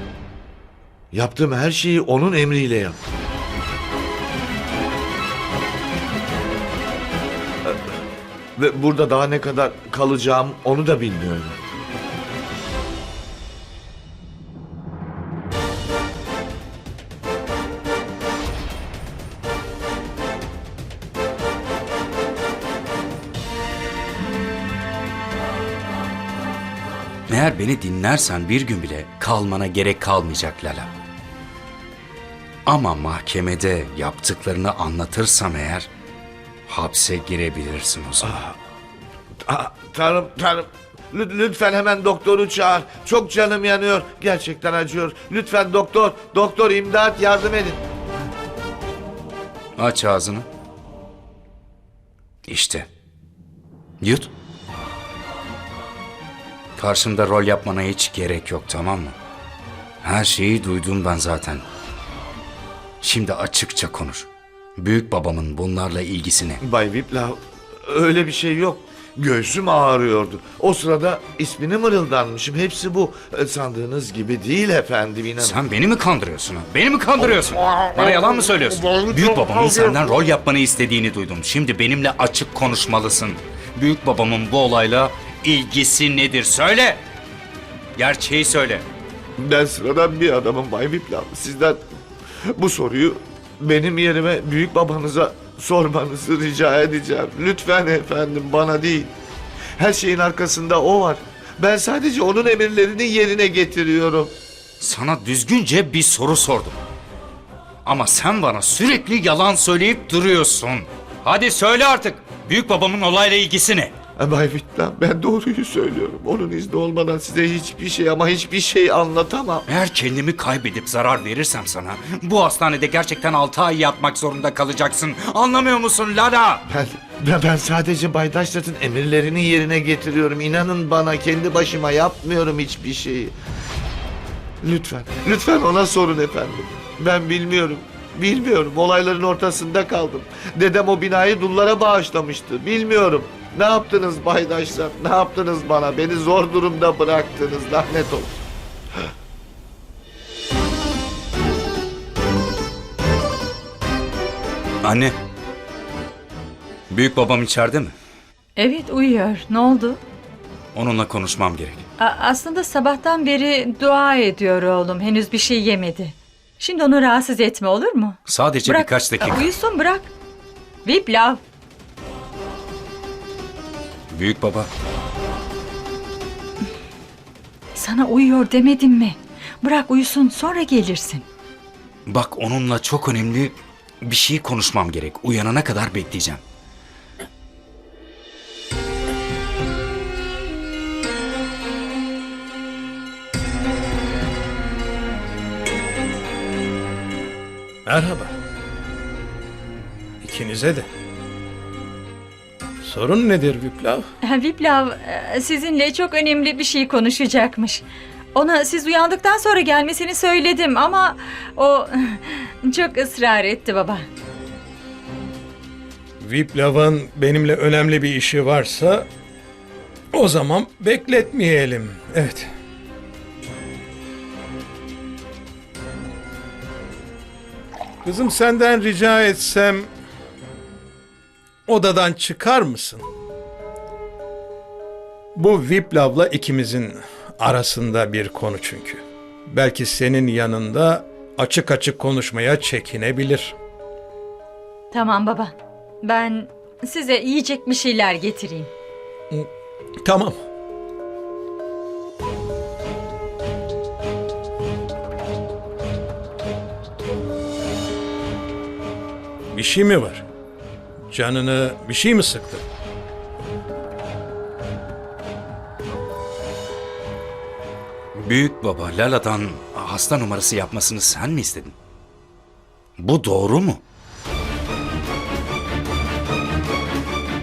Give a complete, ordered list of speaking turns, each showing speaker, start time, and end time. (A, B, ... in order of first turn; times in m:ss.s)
0:01.1-0:03.0 A
0:08.6-0:11.6 A
0:27.3-0:30.9 B
0:32.6-0:35.9 B
0:36.7-0:38.4 B
0:38.2-0:38.6 A
0:39.4-0:47.8 A
0:49.8-0:50.4 B
0:52.5-0:52.9 B
0:54.0-0:54.3 B
0:56.8-0:59.1 B
1:00.0-1:01.6 B
1:03.0-1:06.6 B
1:06.6-1:15.6 A
1:15.4-1:27.0 B
1:28.0-1:28.8 B
1:29.4-1:31.8 A
1:32.6-1:39.1 A
1:39.8-1:44.3 A
1:44.8-1:46.8 B
1:47.8-1:53.9 B
1:54.2-1:59.6 A
1:59.7-2:06.6 B
2:06.7-2:13.3 A
2:14.6-2:28.4 A
2:34.8-2:35.2 B
2:36.9-2:37.9 B
2:38.6-2:40.0 C
2:40.7-2:41.8 B
2:42.0-2:50.1 C
2:48.3-2:49.5 B
2:50.8-2:51.4 C
2:54.1-2:54.7 B
2:57.7-3:01.2 C
3:02.0-3:06.4 B
3:17.8-3:18.3 D
3:20.2-3:20.9 D
3:22.8-3:24.1 D
3:24.2-3:34.0 C
3:36.2-3:39.0 D
3:40.1-3:42.5 D
3:48.0-3:49.9 D
3:51.7-3:53.1 D
3:55.3-4:03.5 D
4:04.9-4:08.7 C
4:10.0-4:10.4 D
4:19.5-4:20.2 D
4:21.1-4:22.6 D
4:28.1-4:31.7 B
4:33.0-4:33.8 B